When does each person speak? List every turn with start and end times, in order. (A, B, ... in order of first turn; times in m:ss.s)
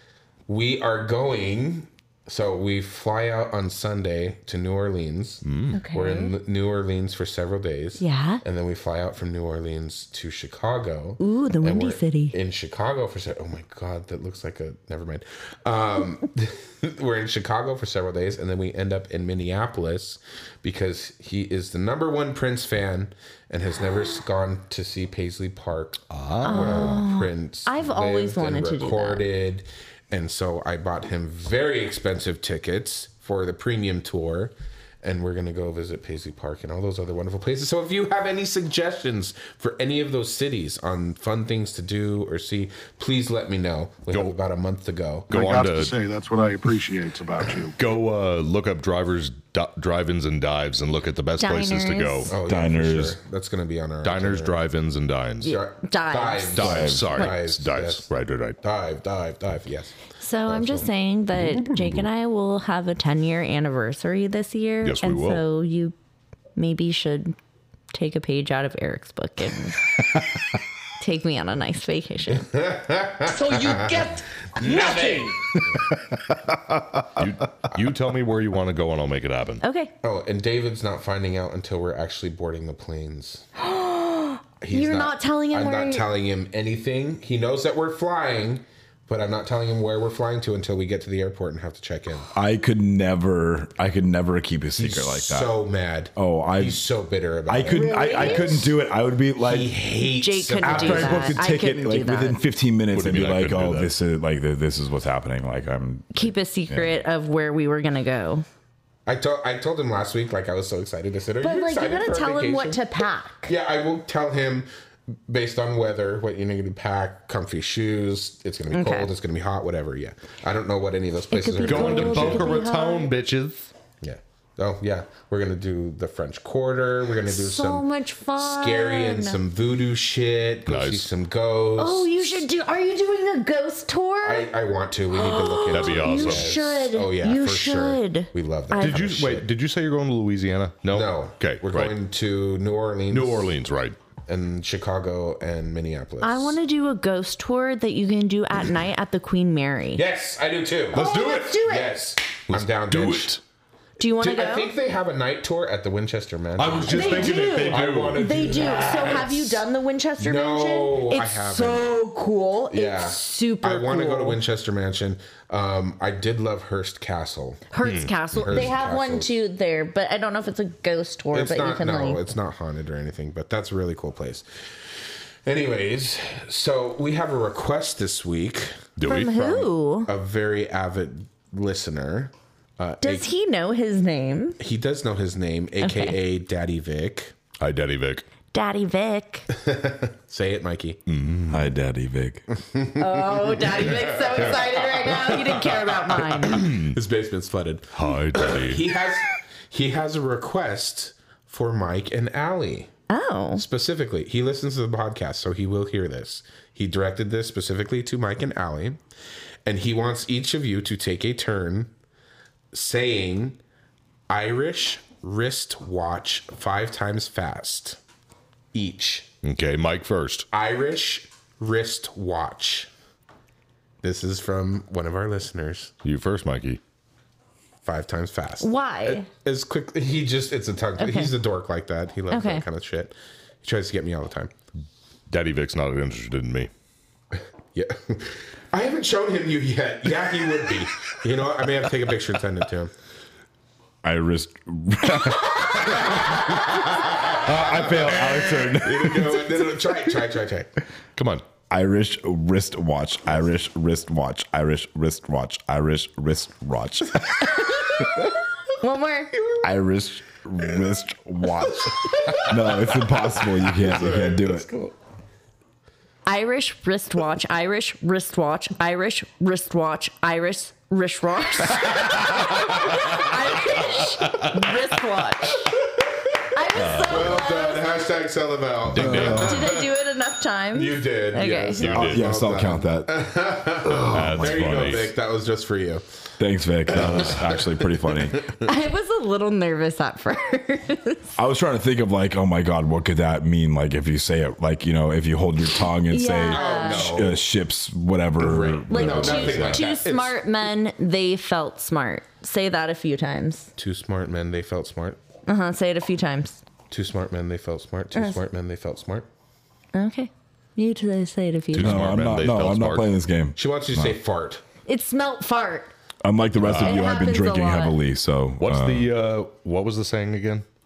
0:00.5-0:45.5 A
0:05.4-0:05.8 B
0:05.7-0:06.3 C
0:08.0-0:08.4 C
0:11.2-0:12.4 C
0:26.1-0:27.0 B
0:26.4-0:29.2 C
0:44.1-0:44.4 B
0:45.3-0:47.8 D
0:45.3-0:45.9 B
0:47.8-0:52.3 B
0:51.4-0:52.3 C
0:52.3-0:54.6 A
0:52.4-0:53.2 E
0:54.0-0:55.6 B
0:55.4-0:57.3 C
0:55.4-0:58.0 A
0:56.5-0:58.6 B
0:56.6-0:57.1 E
0:58.6-0:59.9 A
1:00.2-1:05.9 C
1:00.5-1:00.9 A
1:04.8-1:05.4 B
1:06.6-1:07.4 C
1:07.9-1:09.9 C
1:11.0-1:12.5 C
1:12.4-1:15.2 A
1:13.2-1:15.4 C
1:14.7-1:15.2 B
1:17.1-1:19.6 B
1:19.6-1:19.9 C
1:20.0-1:23.4 A
1:23.6-1:26.1 C
1:24.6-1:32.3 A
1:32.3-1:35.5 E
1:34.8-1:38.7 A
1:36.2-1:36.8 E
1:37.5-1:39.7 E
1:37.7-1:38.7 C
1:39.4-1:41.4 A
1:40.2-1:42.4 C
1:40.6-1:46.9 E
1:42.9-1:43.9 B
1:46.1-1:48.4 C
1:49.0-1:52.8 A
1:51.4-1:53.5 C
1:53.4-1:54.7 A
1:55.3-2:02.6 A
1:58.7-1:59.1 C
2:01.3-2:03.1 C
2:01.7-2:03.7 B
2:04.0-2:07.9 A
2:07.3-2:09.4 C
2:08.4-2:12.4 A
2:10.7-2:11.1 B
2:11.8-2:14.5 C
2:14.2-2:19.4 A
2:15.1-2:19.0 C
2:15.7-2:16.6 B
2:18.8-2:21.9 B
2:20.9-2:23.5 A
2:23.1-2:24.0 B
2:24.3-2:26.6 A
2:26.2-2:30.0 C
2:29.9-2:33.4 A
2:30.9-2:32.0 C
2:32.5-2:33.4 B
2:34.0-2:34.7 C
2:34.1-2:39.6 A
2:36.6-2:39.2 B
2:36.7-2:44.4 C
2:40.2-2:41.9 A
2:42.7-2:47.7 A
2:47.7-2:52.2 C
2:47.8-2:48.7 B
2:48.3-2:49.3 A
2:51.3-2:54.4 A
2:55.4-3:03.3 A
2:59.0-2:59.3 B
2:59.0-3:00.1 C
3:03.0-3:04.6 C
3:04.6-3:07.3 A
3:05.8-3:06.2 C
3:07.6-3:08.2 B
3:08.5-3:09.5 C
3:09.5-3:11.0 A
3:11.1-3:11.7 B
3:11.5-3:12.4 E
3:12.7-3:22.9 A
3:13.0-3:16.7 C
3:16.5-3:17.0 B
3:17.9-3:18.8 B
3:23.1-3:23.6 C
3:23.5-3:29.0 A
3:29.6-3:31.9 A
3:32.7-3:33.6 A
3:34.3-3:38.0 A
3:38.7-3:39.3 A
3:39.4-3:40.5 B
3:40.5-3:42.9 A
3:44.0-3:45.9 A
3:46.0-3:46.8 B
3:47.8-3:54.5 A
3:48.6-3:49.3 C
3:51.0-3:51.3 C
3:52.3-3:52.6 C
3:55.3-3:56.7 B
3:57.7-4:02.9 A
4:04.0-4:09.8 E
4:05.8-4:10.7 A
4:11.2-4:11.4 B
4:11.7-4:18.2 E
4:18.8-4:19.3 C
4:19.4-4:19.7 A
4:19.6-4:24.7 E
4:22.1-4:23.0 A
4:23.6-4:24.9 A
4:26.2-4:35.8 C
4:34.2-4:34.7 B
4:36.5-4:38.0 C
4:36.8-4:37.4 B
4:37.0-4:39.9 A
4:38.9-4:39.6 B
4:38.9-4:39.6 E
4:39.2-4:41.9 C
4:40.7-4:46.0 A
4:41.8-4:42.2 B
4:41.8-4:45.0 E
4:44.1-4:45.1 B
4:46.4-4:48.5 E
4:46.9-4:47.6 A
4:47.0-4:47.4 B
4:48.6-4:51.3 C
4:51.4-4:59.8 E
4:56.1-4:57.1 C
4:56.5-4:57.4 A
4:58.4-5:00.4 A
4:58.9-5:03.7 C
5:03.8-5:05.2 A
5:05.5-5:06.6 C
5:06.9-5:09.3 A
5:08.1-5:08.4 C
5:09.9-5:12.0 C
5:11.7-5:13.1 B
5:11.8-5:14.2 E
5:13.6-5:14.6 A
5:14.8-5:15.9 C
5:16.2-5:19.1 E
5:16.6-5:17.1 B
5:16.7-5:18.0 C
5:18.6-5:20.6 B